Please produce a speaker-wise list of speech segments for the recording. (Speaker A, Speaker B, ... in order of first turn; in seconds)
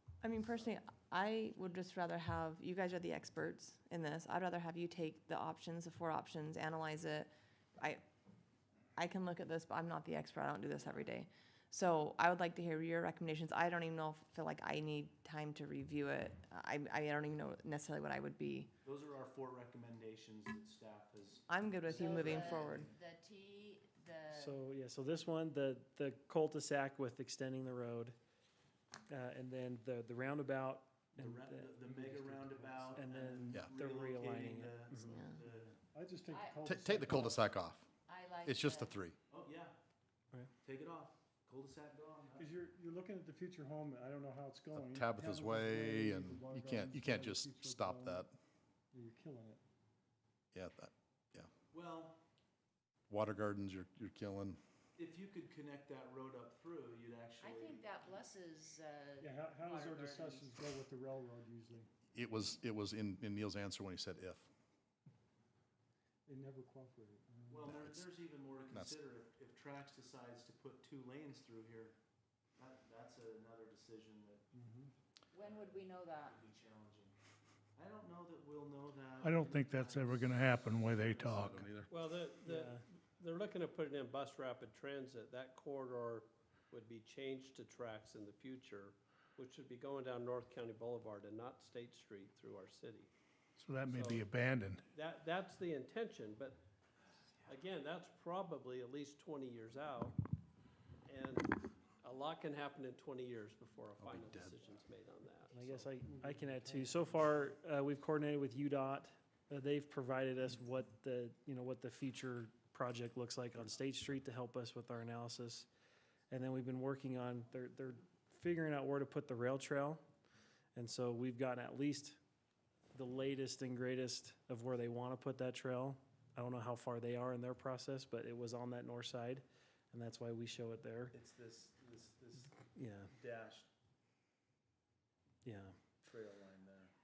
Speaker A: 0.2-7.3, 9.0-18.7, 21.5-22.9
Speaker B: 18.8-22.9, 31.1-35.8, 39.3-39.8, 40.6-42.5, 51.7-52.2, 55.0-58.2, 67.5-72.0, 72.6-74.5, 75.4-77.2, 77.8-81.8, 131.1-133.7, 136.0-136.9
Speaker C: 21.9-24.6, 36.3-36.6, 38.0-39.0, 57.4-60.5, 75.3-76.4
Speaker D: 24.3-28.2, 29.1-35.2, 82.4-82.8, 105.5-115.7, 116.3-120.0, 120.8-122.2, 122.9-131.2, 132.6-133.1, 135.4-135.8
Speaker E: 35.9-37.5, 42.4-48.3, 48.9-49.6, 59.2-61.9, 66.3-67.7, 74.5-74.9, 105.6-107.4
Speaker F: 36.6-37.9, 38.5-39.2, 44.7-48.4, 50.5-51.5, 53.1-54.6, 62.1-64.5, 67.7-68.1, 68.7-69.0, 81.4-81.9, 104.0-104.6
Speaker G: 79.2-81.7, 93.6-94.8
Speaker H: 81.9-93.1, 93.9-94.3, 94.9-96.6, 97.4-100.2, 101.1-105.7